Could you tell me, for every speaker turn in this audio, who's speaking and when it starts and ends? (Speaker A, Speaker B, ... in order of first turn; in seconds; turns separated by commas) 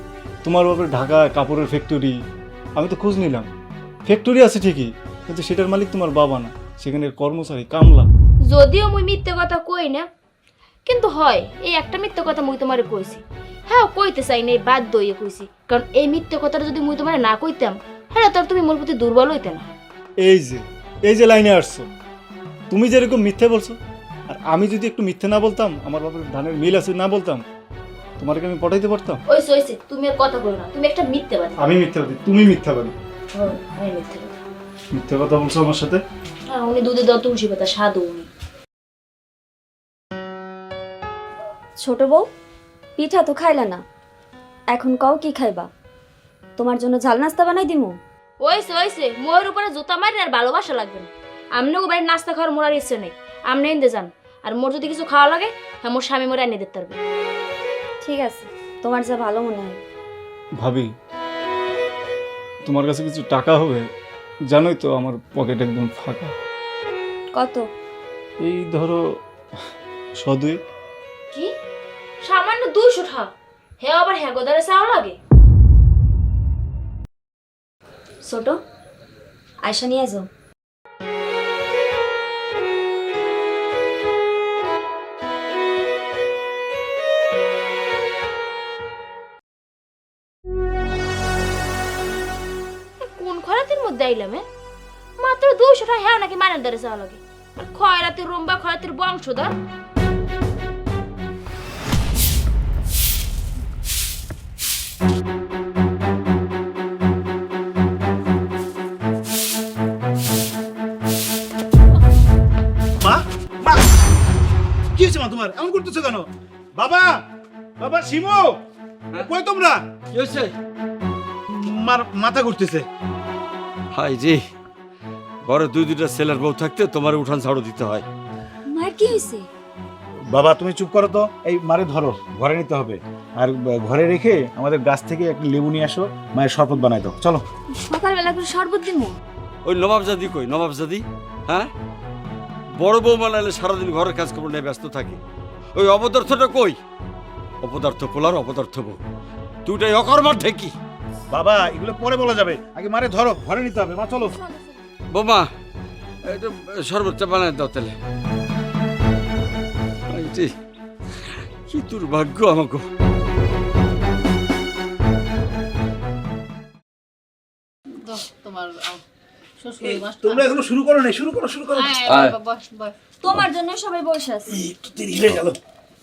Speaker A: 0.4-2.1, Speaker A: 2.8-3.5, Speaker A: 4.0-8.1, Speaker B: 8.5-10.1, Speaker B: 10.9-19.7, Speaker A: 20.2-21.9, Speaker A: 22.7-27.4, Speaker A: 28.2-29.2, Speaker B: 29.3-31.6, Speaker A: 31.6-33.0, Speaker B: 33.3-34.3, Speaker A: 34.9-36.0, Speaker B: 36.5-38.3, Speaker C: 41.8-42.3, Speaker C: 43.0-43.8, Speaker C: 44.7-45.7, Speaker C: 46.6-48.0, Speaker B: 48.4-57.0, Speaker C: 58.0-59.8, Speaker A: 60.6-60.9, Speaker A: 62.6-63.9, Speaker A: 64.5-66.3, Speaker C: 67.3-67.7, Speaker A: 68.4-69.0, Speaker A: 70.2-70.6, Speaker B: 72.2-75.2, Speaker C: 78.2-78.6, Speaker C: 79.6-80.3, Speaker B: 93.0-94.4, Speaker B: 95.2-99.5, Speaker D: 113.0-113.8, Speaker D: 114.9-117.2, Speaker D: 117.8-118.6, Speaker D: 119.1-119.8, Speaker E: 120.1-120.5, Speaker D: 121.5-122.8, Speaker E: 123.9-124.4, Speaker E: 125.4-128.0, Speaker C: 128.7-129.5, Speaker D: 130.3-137.4, Speaker C: 137.8-139.2, Speaker E: 139.6-141.7, Speaker E: 142.8-145.2, Speaker E: 145.8-146.8, Speaker E: 147.6-149.0, Speaker E: 149.6-150.7, Speaker D: 151.3-154.3, Speaker E: 155.1-155.5, Speaker E: 156.2-157.9, Speaker E: 160.1-160.5, Speaker E: 161.7-162.8, Speaker F: 168.0-169.0, Speaker F: 169.6-170.6, Speaker D: 169.8-172.2, Speaker F: 171.7-172.9, Speaker E: 172.1-172.4, Speaker C: 173.2-174.6, Speaker D: 174.5-175.6